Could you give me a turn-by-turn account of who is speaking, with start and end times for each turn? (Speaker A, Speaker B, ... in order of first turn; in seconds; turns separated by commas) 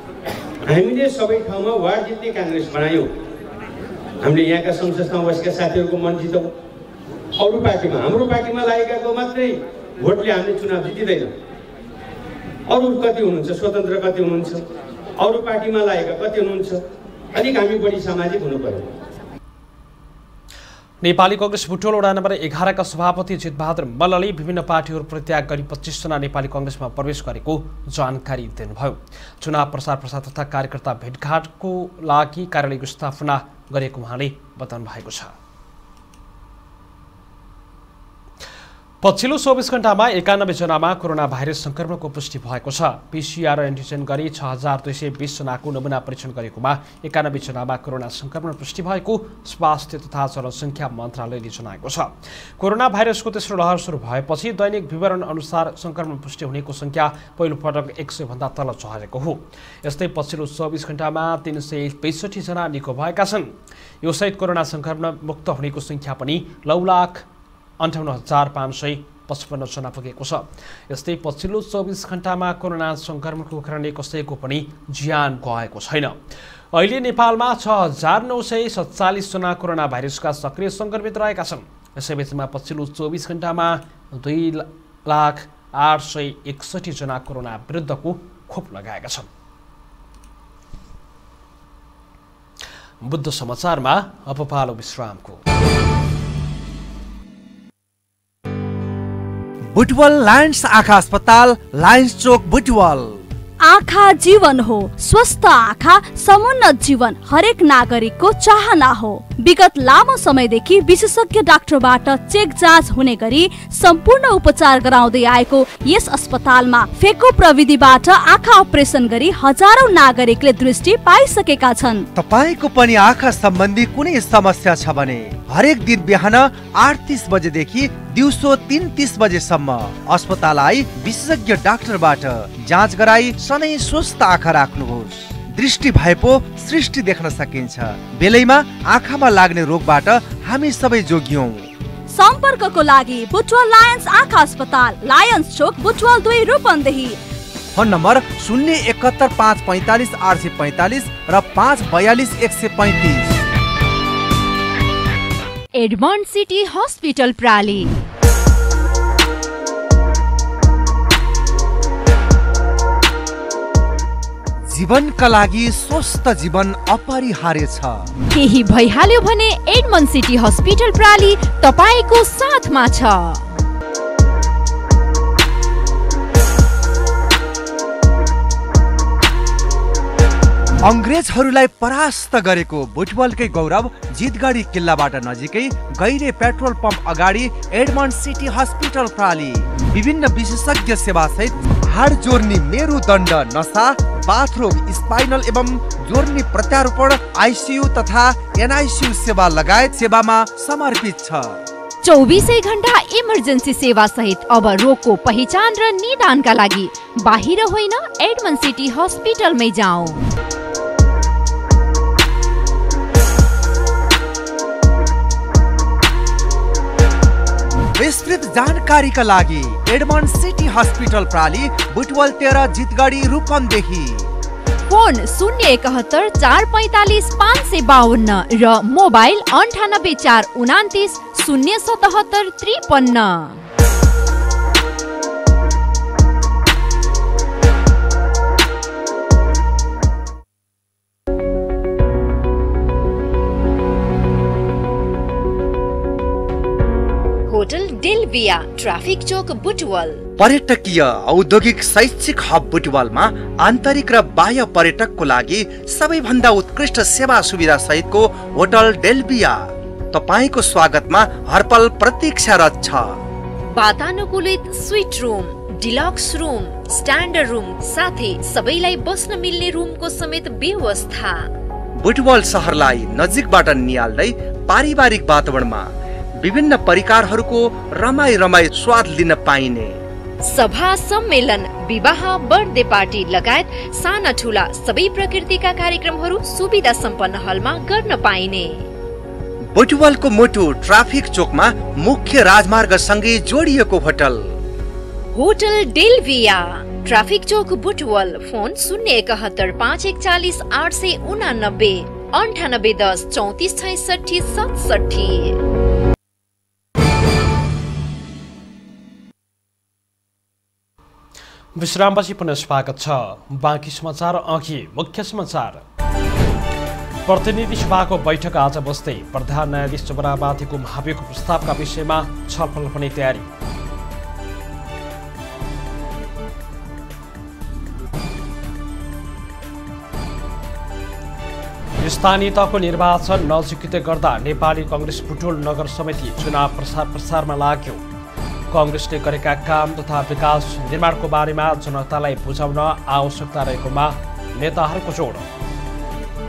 Speaker A: 0.7-3.1, Speaker A: 4.2-6.5, Speaker A: 7.4-11.3, Speaker A: 12.7-14.6, Speaker A: 15.2-16.8, Speaker A: 17.3-18.9, Speaker B: 21.0-35.3, Speaker B: 39.0-67.2, Speaker B: 67.8-76.2, Speaker B: 76.7-89.3, Speaker B: 93.0-95.4, Speaker C: 99.7-103.2, Speaker D: 103.6-122.1, Speaker C: 122.2-141.7, Speaker D: 142.1-147.2, Speaker C: 147.7-153.3, Speaker E: 155.8-157.9, Speaker C: 164.7-168.1, Speaker E: 168.3-173.5, Speaker C: 180.8-201.6, Speaker E: 202.0-210.2, Speaker C: 218.0-224.3, Speaker E: 224.9-233.7, Speaker E: 247.5-250.2, Speaker C: 250.4-263.2, Speaker E: 263.7-271.5, Speaker C: 272.0-280.0, Speaker E: 280.4-288.9, Speaker C: 289.6-294.5, Speaker E: 295.3-305.6, Speaker B: 311.8-315.8, Speaker B: 317.3-323.5, Speaker B: 332.0-338.0, Speaker B: 338.7-345.5